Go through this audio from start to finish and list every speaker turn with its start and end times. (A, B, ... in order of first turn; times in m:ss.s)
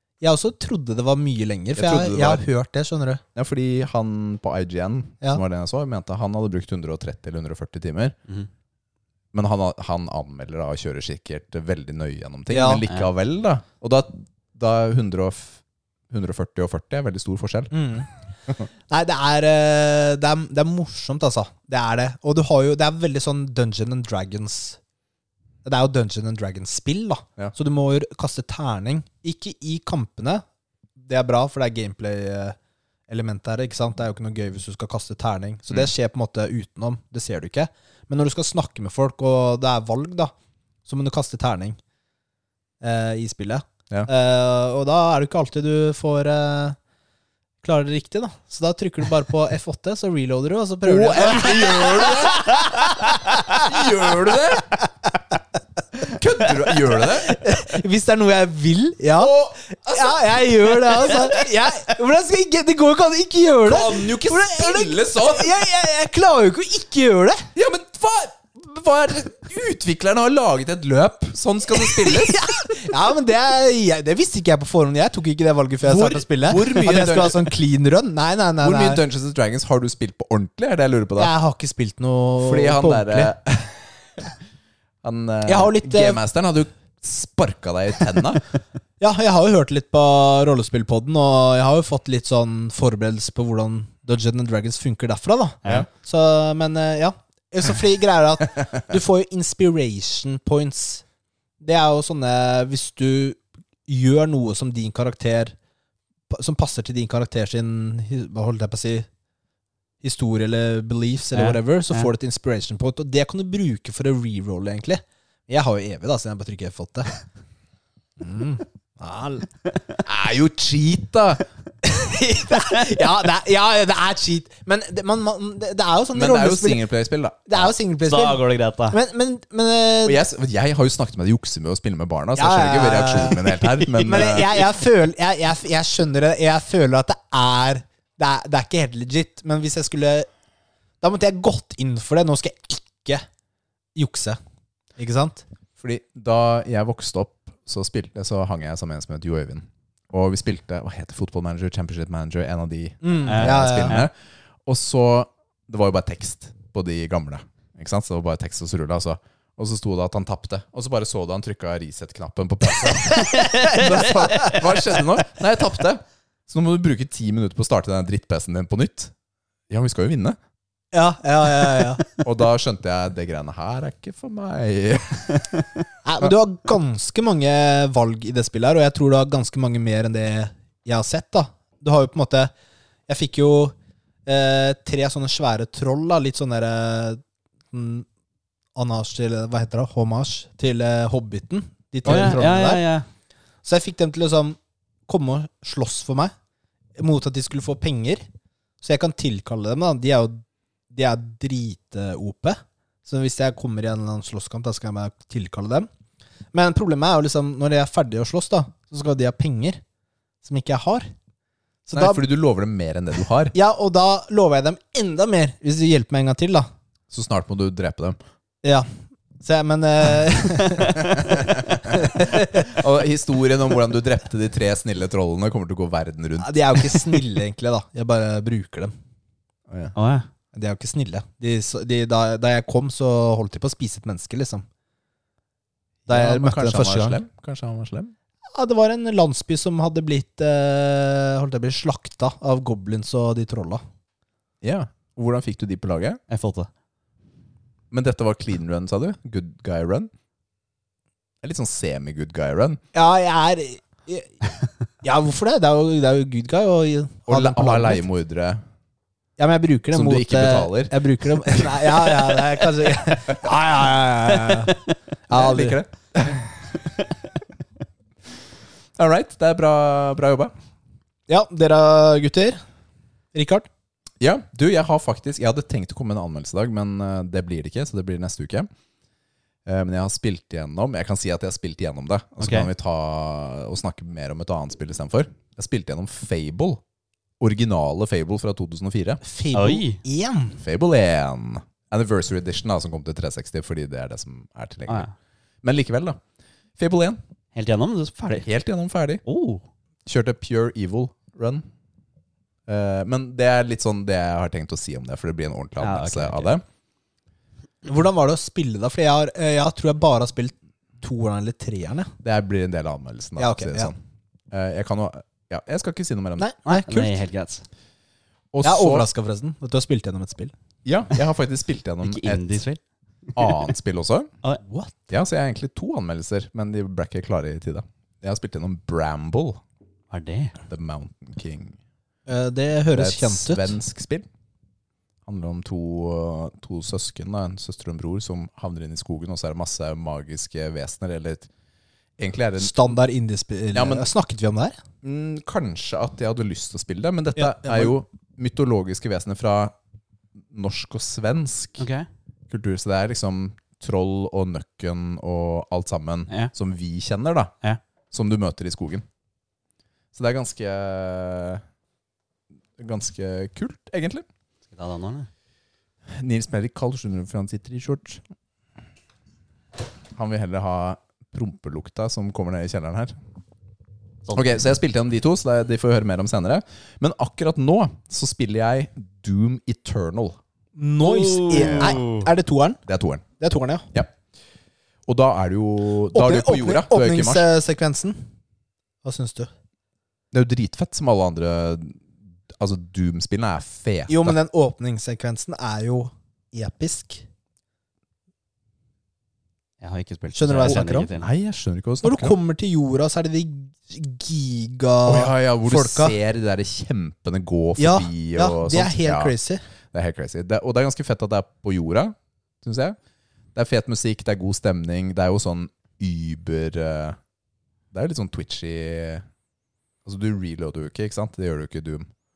0:00.2-0:03.2 A
0:01.8-0:02.4 B
0:03.4-0:08.2 B
0:09.3-0:17.8 B
0:12.5-0:12.8 A
0:17.7-0:18.1 A
0:18.9-0:24.8 A
0:25.6-0:30.4 A
0:31.0-0:32.6 A
0:33.1-0:40.3 A
0:40.9-0:41.8 A
0:42.8-0:46.8 A
0:47.6-0:53.8 A
0:50.8-0:54.7 B
0:56.0-0:57.4 B
0:56.7-1:07.5 A
0:59.2-1:01.5 B
1:03.6-1:05.6 B
1:07.6-1:12.4 B
1:11.8-1:19.0 A
1:15.8-1:17.6 B
1:18.6-1:21.3 B
1:21.2-1:23.3 A
1:22.4-1:23.8 B
1:25.0-1:28.4 B
1:25.5-1:26.2 A
1:29.0-1:41.0 A
1:41.6-1:45.6 A
1:46.3-1:49.1 A
1:50.0-1:57.1 A
1:51.3-1:52.1 C
1:58.2-1:59.5 A
2:00.0-2:01.4 B
2:01.8-2:06.8 A
2:06.1-2:07.6 B
2:07.5-2:10.2 A
2:08.1-2:09.0 C
2:10.0-2:14.6 B
2:12.4-2:20.3 A
2:21.0-2:23.2 A
2:24.0-2:24.4 A
2:25.0-2:25.4 A
2:25.8-2:34.1 B
2:33.0-2:34.0 A
2:33.3-2:34.1 C
2:34.7-2:49.1 B
2:42.9-2:44.6 A
2:49.7-2:50.4 B
2:50.9-2:52.1 A
2:52.2-2:55.5 B
2:56.0-3:02.5 A
3:03.1-3:03.7 A
3:04.3-3:07.2 A
3:07.7-3:08.1 A
3:08.8-3:12.8 A
3:12.0-3:12.6 B
3:12.1-3:13.1 C
3:13.6-3:16.3 A
3:17.0-3:18.2 A
3:18.8-3:25.9 A
3:26.5-3:29.8 A
3:30.4-3:31.1 A
3:31.9-3:32.2 A
3:31.9-3:33.5 B
3:33.5-3:36.7 A
3:37.1-3:38.2 B
3:39.4-3:42.7 A
3:41.0-3:47.2 B
3:46.4-3:48.9 A
3:49.7-3:50.0 B
3:50.0-3:50.3 C
3:50.5-3:54.7 A
3:56.1-3:58.1 B
3:56.1-3:57.2 A
3:58.6-4:03.8 A
4:04.6-4:06.2 B
4:06.3-4:06.7 C
4:07.9-4:10.1 B
4:11.4-4:12.8 B
4:12.9-4:14.4 A
4:15.0-4:18.0 A
4:17.3-4:18.6 B
4:19.4-4:24.7 A
4:19.9-4:22.1 B
4:24.4-4:24.7 C
4:25.3-4:25.8 A
4:25.3-4:26.6 B
4:29.0-4:30.5 B
4:31.3-4:32.6 A
4:33.3-4:33.7 A
4:34.2-4:38.7 B
4:39.7-4:46.8 B
4:42.4-4:42.7 C
4:47.4-4:49.2 B
4:49.2-4:50.6 A
4:49.5-4:50.0 C
4:50.6-4:55.1 B
4:54.9-4:55.1 C
4:55.6-4:56.2 B
4:56.8-4:57.2 B
4:57.6-4:58.5 C
4:58.4-4:59.2 B
4:59.3-4:59.6 C
5:00.1-5:01.6 B
5:02.7-5:06.6 B
5:05.8-5:06.6 C
5:07.8-5:12.1 A
5:12.2-5:14.0 B
5:13.4-5:13.9 A
5:14.5-5:16.5 B
5:16.4-5:17.2 A
5:16.7-5:17.6 C
5:18.5-5:19.1 B
5:18.6-5:20.5 A
5:20.8-5:22.6 B
5:22.0-5:23.6 C
5:23.4-5:24.3 B
5:24.6-5:24.9 A
5:25.1-5:29.6 B
5:30.1-5:30.6 C
5:30.7-5:31.8 B
5:32.3-5:33.8 A
5:32.9-5:34.3 B
5:35.3-5:41.5 B
5:42.2-5:42.7 B
5:42.6-5:44.8 A
5:43.7-5:44.1 B
5:45.0-5:49.7 B
5:47.4-5:47.9 A
5:50.5-5:51.9 B
5:51.8-5:52.1 C
5:52.5-5:57.6 B
5:58.1-5:59.0 B
6:00.1-6:01.6 B
6:02.8-6:04.3 B
6:04.7-6:05.3 C
6:06.1-6:08.2 B
6:10.2-6:13.2 B
6:14.3-6:20.4 B
6:20.8-6:22.8 A
6:21.0-6:22.3 C
6:21.5-6:22.0 B
6:22.9-6:23.2 B
6:23.4-6:23.9 A
6:25.1-6:27.5 B
6:26.1-6:28.2 A
6:29.0-6:29.5 A
6:30.3-6:34.4 B
6:34.1-6:37.2 A
6:39.8-6:41.3 C
6:40.4-6:41.1 A
6:40.7-6:42.4 B
6:42.0-6:46.2 A
6:45.1-6:49.3 B
6:47.8-6:49.6 A
6:49.9-6:53.0 B
6:53.6-6:57.2 B
6:57.9-6:59.3 B
7:00.0-7:02.1 B